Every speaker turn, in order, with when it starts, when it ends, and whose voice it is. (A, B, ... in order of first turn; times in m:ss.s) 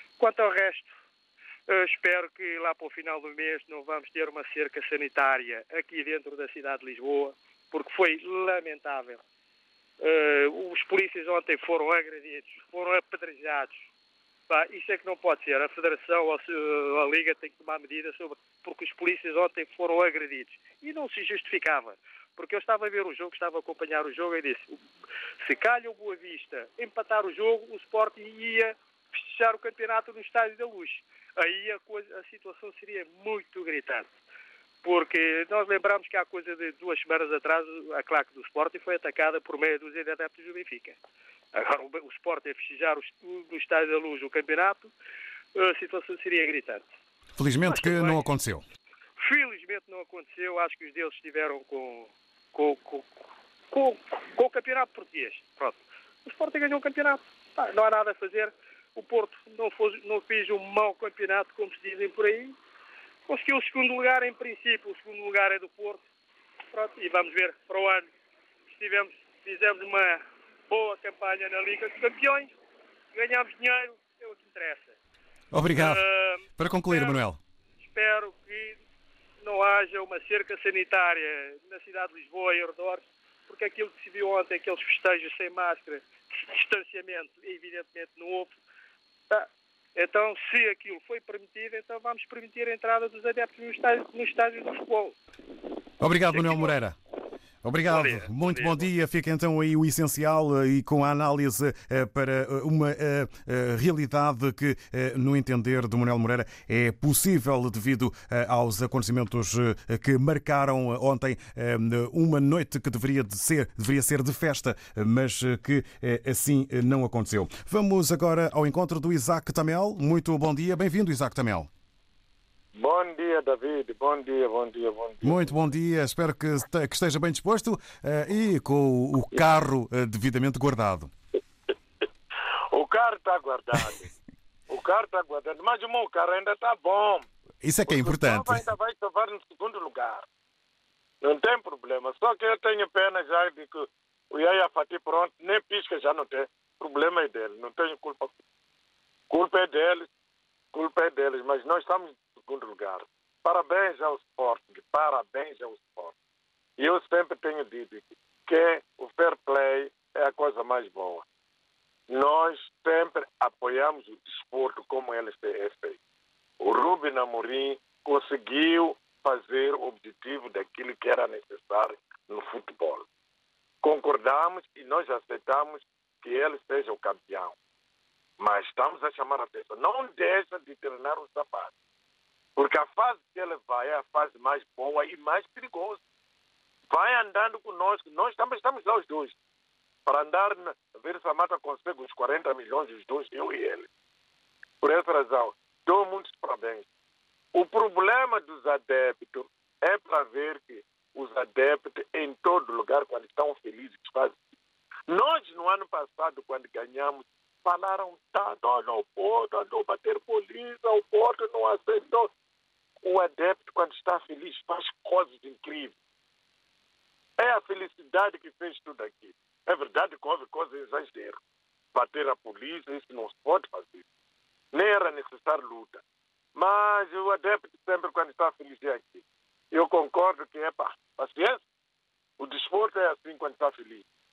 0:00.2-0:00.9 A
0:01.7-0:09.2 A
0:10.0-0:13.8 A
0:14.5-0:24.8 A
0:25.4-0:34.1 A
0:34.8-0:41.0 A
0:41.5-0:44.9 A
0:45.5-0:46.9 A
0:47.4-0:48.6 B
0:47.7-0:48.2 A
0:49.2-0:53.1 A
0:53.7-1:02.5 A
1:03.3-1:06.0 A
1:06.7-1:08.1 A
1:08.7-1:12.5 A
1:13.1-1:14.9 A
1:15.5-1:16.0 B
1:15.7-1:17.2 A
1:16.6-1:17.4 B
1:17.9-1:18.8 A
1:19.4-1:28.5 A
1:29.3-1:35.1 A
1:36.0-1:37.0 B
1:36.2-1:36.8 A
1:37.6-2:01.7 B
1:37.8-1:38.9 A
2:02.7-2:05.7 C
2:05.2-2:11.1 B
2:12.7-2:14.1 C
2:14.7-2:17.2 C
2:17.6-2:18.6 B
2:17.8-2:20.2 C
2:21.2-2:28.3 C
2:29.3-2:30.1 C
2:30.7-2:36.1 C
2:36.8-2:41.2 C
2:42.1-2:46.0 C
2:46.6-2:53.0 C
2:53.8-2:57.5 C
2:58.4-3:01.7 C
3:02.6-3:06.0 C
3:06.9-3:09.3 C
3:10.0-3:13.9 C
3:14.8-3:16.8 C
3:17.5-3:24.4 C
3:25.1-3:32.3 C
3:33.0-3:35.9 C
3:37.4-3:41.4 C
3:41.9-3:44.0 C
3:44.7-3:46.0 C
3:46.5-3:51.6 C
3:52.4-3:54.0 C